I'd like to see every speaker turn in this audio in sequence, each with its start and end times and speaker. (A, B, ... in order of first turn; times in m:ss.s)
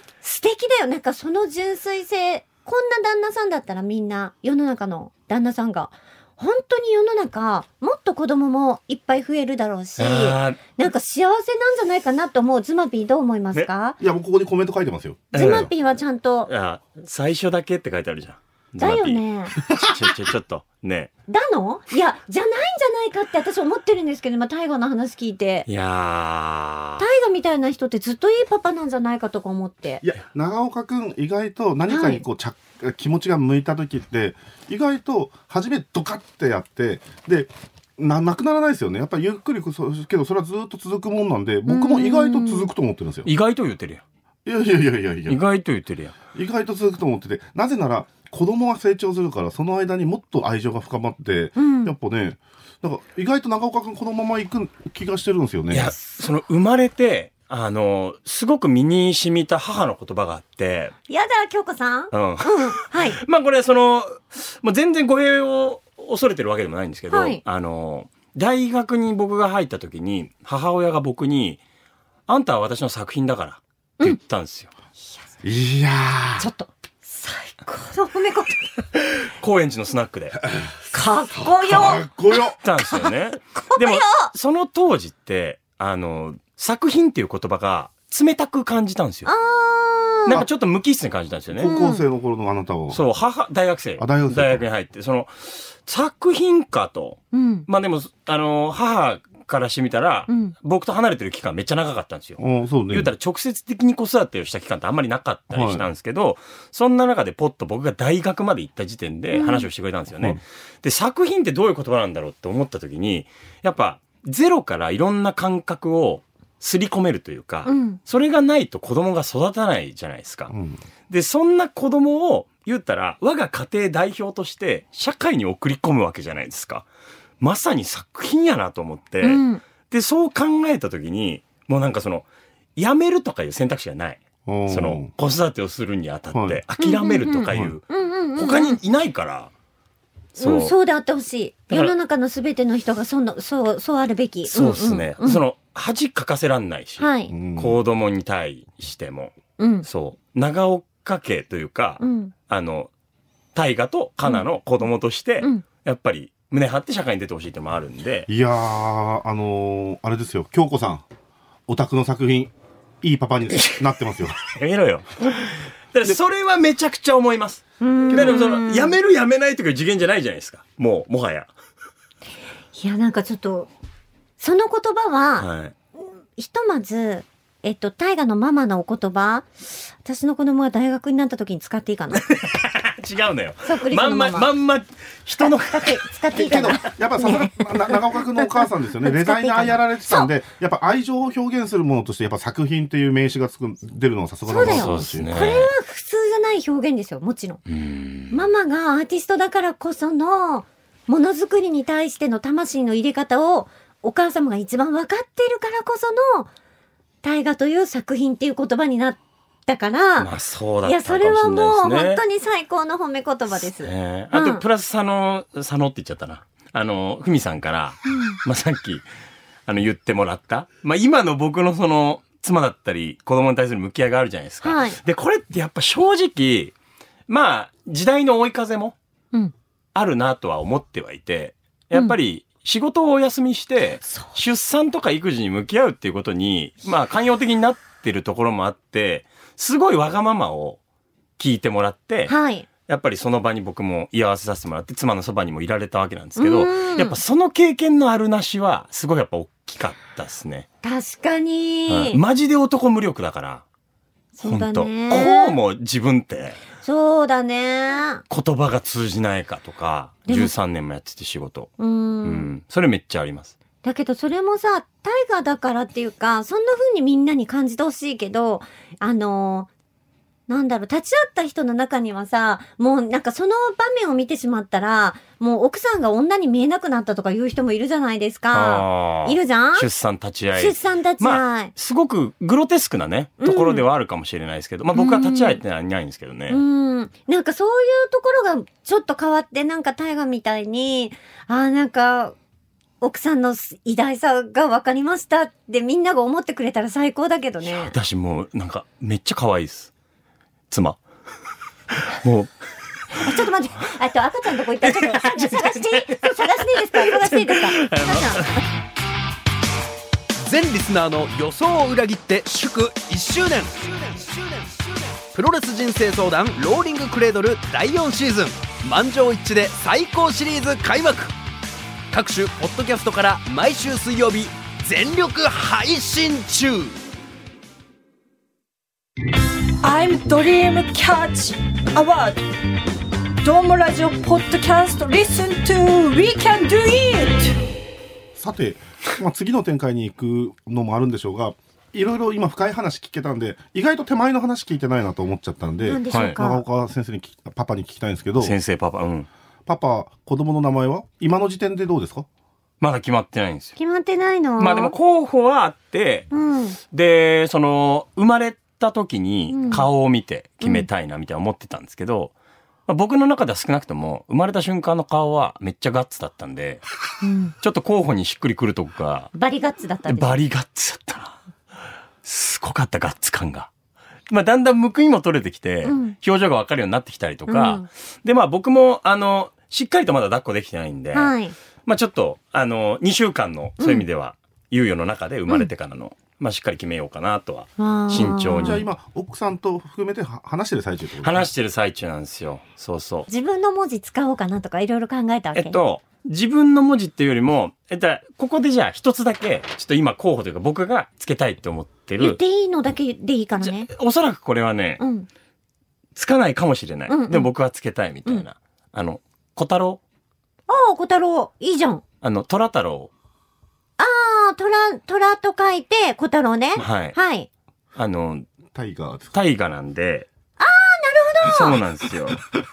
0:00.2-0:14.0 A
0:10.0-0:10.6 B
0:14.0-0:15.7 C
0:15.3-0:15.7 B
0:15.4-0:16.5 A
0:16.5-0:19.2 B
0:18.8-0:19.6 A
0:19.7-0:19.9 C
0:19.8-0:21.1 B
0:21.3-0:25.7 A
0:25.7-0:27.0 B
0:27.0-0:30.0 A
0:30.0-0:43.3 C
0:31.9-0:32.2 A
0:41.7-0:42.7 A
0:43.2-0:44.0 B
0:44.4-0:45.4 C
0:45.3-0:46.2 B
0:46.3-0:56.0 C
0:51.6-0:51.9 A
0:55.7-1:00.9 B
1:01.1-1:03.2 A
1:02.1-1:11.6 B
1:07.1-1:07.4 A
1:12.3-1:14.7 B
1:15.4-1:16.5 C
1:16.4-1:18.8 A
1:19.0-1:20.4 B
1:20.4-1:20.8 C
1:20.9-1:22.2 A
1:21.3-1:22.6 C
1:22.6-1:29.3 B
1:22.9-1:24.3 A
1:29.3-1:30.4 A
1:30.3-1:31.7 B
1:31.5-1:33.0 C
1:31.6-1:32.1 A
1:32.9-1:42.4 B
1:34.0-1:34.6 C
1:37.3-1:37.7 A
1:40.3-1:40.5 A
1:42.4-1:43.1 C
1:42.9-2:00.5 B
1:45.5-1:45.9 C
1:49.3-1:49.7 A
1:57.7-1:58.0 A
2:00.5-2:00.8 C
2:01.1-2:06.9 B
2:07.4-2:17.8 B
2:09.2-2:09.6 A
2:14.5-2:15.1 C
2:16.3-2:16.6 C
2:16.8-2:18.8 A
2:17.5-2:17.8 C
2:18.4-2:19.5 B
2:20.4-2:20.7 B
2:20.4-2:25.4 A
2:24.5-2:32.9 B
2:27.0-2:27.4 A
2:27.3-2:27.8 C
2:29.6-2:29.9 A
2:32.0-2:32.3 A
2:33.6-2:38.3 B
2:38.3-2:41.0 C
2:41.7-2:44.4 C
2:43.5-2:43.8 B
2:44.4-2:51.5 B
2:47.8-2:49.0 A
2:48.1-2:48.4 C
2:52.8-2:53.7 A
2:54.4-2:55.5 A
2:55.4-2:55.7 B
2:56.4-3:02.2 A
3:02.3-3:06.0 B
3:03.7-3:04.5 A
3:05.4-3:10.3 A
3:06.4-3:15.3 C
3:14.5-3:17.6 A
3:14.6-3:15.7 B
3:17.7-3:18.4 B
3:18.3-3:26.5 A
3:27.2-3:30.3 A
3:30.2-3:32.2 B
3:30.8-3:34.6 A
3:33.8-3:39.0 B
3:39.7-3:46.7 B
3:44.6-3:45.0 A
3:47.3-3:49.0 B
3:50.0-4:00.8 B
4:01.4-4:02.3 B
4:02.3-4:02.7 A
4:02.9-4:10.7 B
4:06.4-4:07.2 A
4:10.8-4:12.2 A
4:11.9-4:13.6 B
4:14.3-4:15.6 A
4:14.4-4:16.6 B
4:16.8-4:18.2 A
4:18.3-4:21.7 B
4:20.3-4:20.5 A
4:21.8-4:22.5 A
4:22.2-4:23.5 B
4:23.8-4:29.7 A
4:30.5-4:39.9 A
4:38.5-4:46.6 B
4:40.6-4:41.7 A
4:43.4-4:43.9 A
4:44.9-4:45.6 A
4:46.5-4:52.4 A
4:53.0-4:58.0 A
4:57.6-4:59.9 B
5:00.7-5:01.0 B
5:01.9-5:02.5 B
5:03.2-5:08.6 A
5:04.8-5:06.4 B
5:07.0-5:08.6 B
5:10.4-5:21.4 D
5:22.1-5:27.0 D
5:29.8-5:32.4 E
5:33.4-5:37.6 E
5:38.4-5:48.6 C
5:45.8-5:46.6 A
5:46.1-5:46.4 B
5:48.4-5:49.3 B
5:49.7-5:52.3 C
5:52.8-5:53.8 B
5:53.8-5:54.9 A
5:54.6-5:56.3 B
5:56.3-5:56.8 A
5:56.9-6:02.3 B
5:59.5-5:59.9 A
6:00.6-6:00.9 A
6:02.9-6:06.8 B
6:07.2-6:07.5 A
6:07.6-6:09.3 B
6:09.3-6:10.4 A
6:10.1-6:11.4 B
6:12.2-6:13.7 B
6:14.3-6:28.8 B
6:15.8-6:16.2 A
6:17.5-6:17.9 A
6:21.1-6:21.5 A
6:27.8-6:28.8 A
6:28.6-6:31.5 C
6:31.2-6:33.3 B
6:33.3-6:35.8 A
6:35.5-6:42.4 B
6:42.2-6:43.9 A
6:43.6-6:45.0 B
6:45.0-6:45.3 A
6:46.2-6:50.0 B
6:47.1-6:47.5 A
6:50.7-6:52.0 A
6:52.2-6:53.1 B
6:54.0-6:57.5 A
6:56.8-6:57.2 B
6:58.0-6:58.5 B
6:58.7-6:59.4 C
6:59.3-7:00.3 B
7:00.6-7:01.8 A
7:01.4-7:02.4 B